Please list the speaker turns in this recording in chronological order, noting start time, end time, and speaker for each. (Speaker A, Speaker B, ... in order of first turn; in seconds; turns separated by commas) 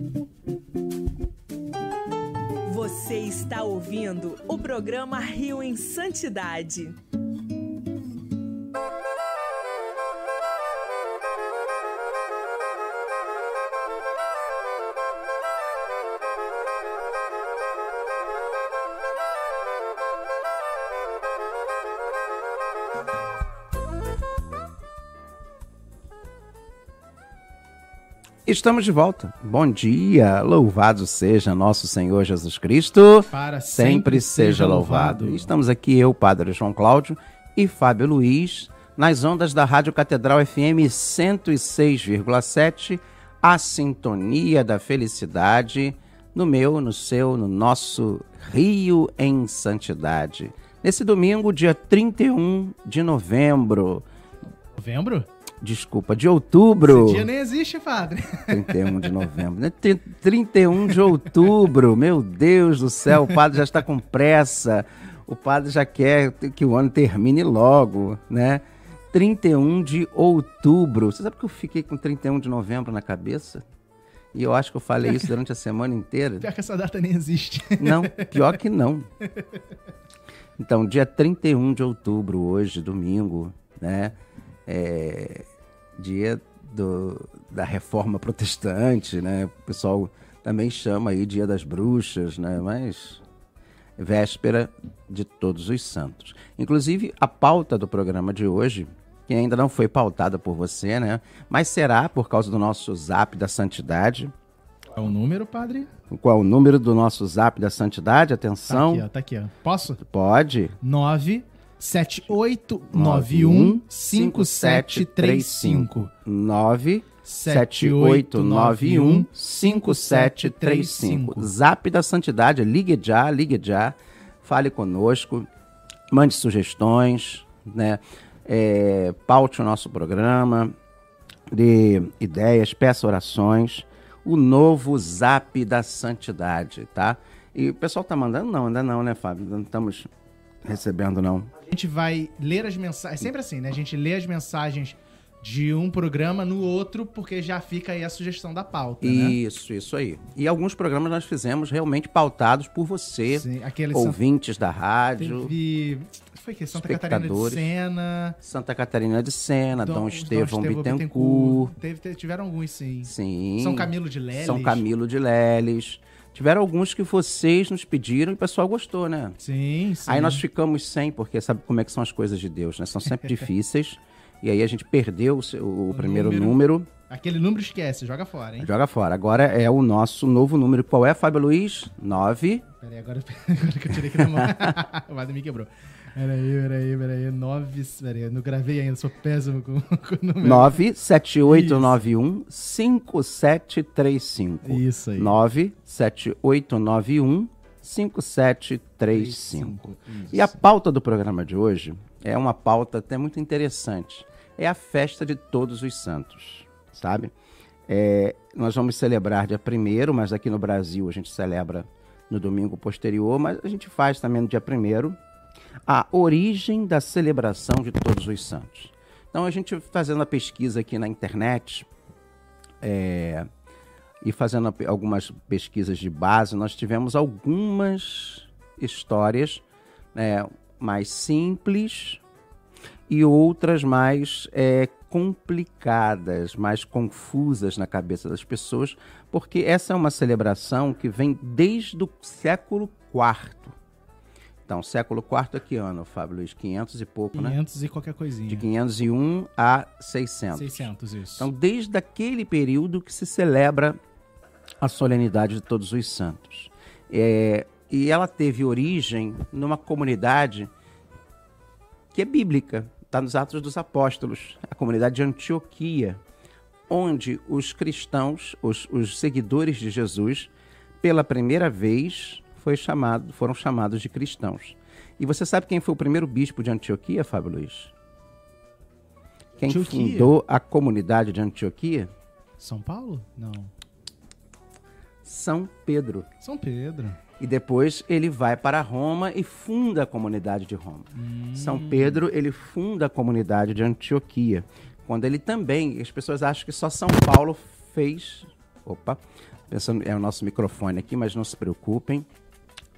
Speaker A: 2.6-7.0, Speaker B: 28.5-54.0, Speaker C: 33.3-35.5, Speaker C: 54.8-55.3, Speaker B: 55.6-57.3, Speaker C: 56.8-59.3, Speaker B: 58.5-73.6, Speaker B: 74.3-76.5, Speaker C: 76.4-78.6, Speaker B: 77.8-79.1, Speaker C: 79.2-79.6, Speaker B: 80.6-84.2, Speaker B: 84.7-85.5, Speaker B: 86.0-93.2, Speaker B: 94.0-104.3, Speaker C: 105.0-105.9, Speaker B: 106.1-109.1, Speaker C: 108.7-110.0, Speaker B: 110.0-110.8, Speaker C: 110.8-116.1, Speaker B: 112.9-125.5, Speaker C: 117.2-121.5, Speaker B: 126.1-130.8, Speaker B: 131.5-140.1, Speaker B: 140.6-141.5, Speaker C: 141.6-149.4, Speaker B: 149.0-155.5, Speaker C: 153.3-154.2, Speaker C: 155.2-158.4, Speaker B: 156.7-157.7, Speaker B: 158.4-161.7, Speaker C: 159.8-164.8, Speaker B: 163.1-169.4, Speaker C: 169.4-170.4, Speaker B: 170.1-176.9, Speaker C: 175.9-178.7, Speaker B: 178.6-182.7, Speaker C: 182.8-190.8, Speaker B: 190.4-207.3, Speaker C: 191.4-192.1, Speaker C: 194.6-195.4, Speaker C: 199.1-200.6, Speaker B: 207.9-215.2, Speaker B: 215.9-221.9, Speaker B: 222.8-223.5, Speaker B: 224.2-229.6, Speaker B: 230.2-232.2, Speaker B: 233.1-243.8, Speaker B: 244.7-247.6, Speaker C: 247.3-248.7, Speaker B: 248.5-254.0, Speaker C: 250.5-251.5, Speaker B: 254.8-260.7, Speaker B: 262.1-266.2, Speaker B: 266.9-277.9, Speaker B: 279.6-282.1, Speaker C: 279.7-280.3, Speaker C: 282.6-283.7, Speaker B: 285.2-286.3, Speaker C: 286.4-287.2, Speaker B: 287.4-302.3, Speaker C: 291.1-292.2